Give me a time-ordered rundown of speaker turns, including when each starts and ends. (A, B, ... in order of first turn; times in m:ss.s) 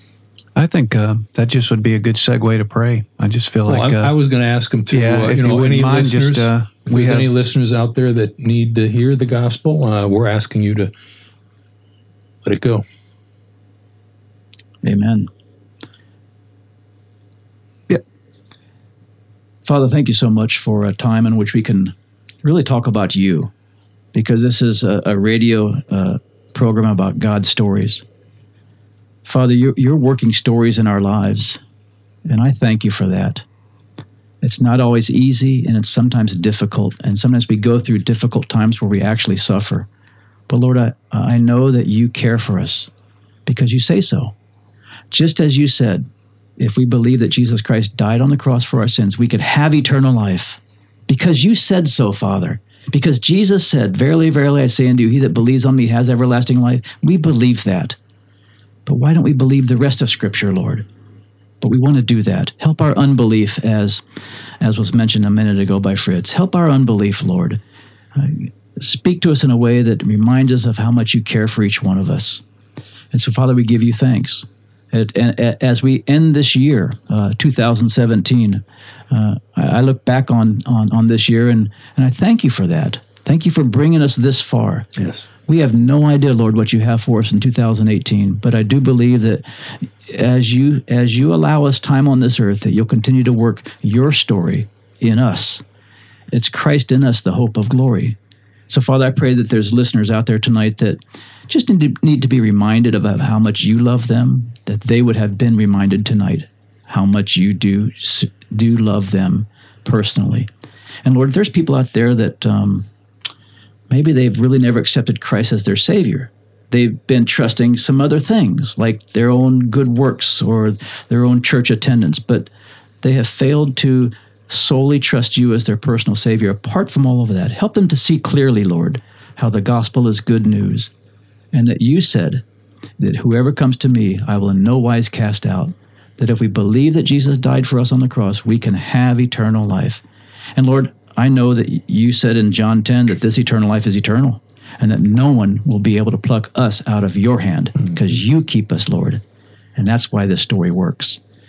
0:00.6-0:04.1 A
0:03.7-0:10.9 B
0:04.9-0:07.3 A
0:12.4-0:12.8 B
0:14.8-0:15.3 C
0:19.6-0:23.5 C
0:24.1-0:28.0 C
0:29.2-0:31.6 C
0:32.3-0:33.4 C
0:34.4-0:39.9 C
0:40.5-0:42.9 C
0:43.5-0:44.3 C
0:45.1-0:46.1 C
0:46.6-0:58.0 C
0:58.9-1:00.9 C
1:01.6-1:04.0 C
1:04.6-1:07.6 C
1:08.2-1:12.4 C
1:13.1-1:24.9 C
1:25.0-1:25.2 B
1:25.5-1:35.6 C
1:36.3-1:38.2 C
1:38.7-1:50.5 C
1:51.0-1:52.9 C
1:53.9-2:02.5 C
2:03.0-2:10.9 C
2:11.5-2:12.4 C
2:13.0-2:20.0 C
2:20.6-2:29.2 C
2:29.8-2:31.2 C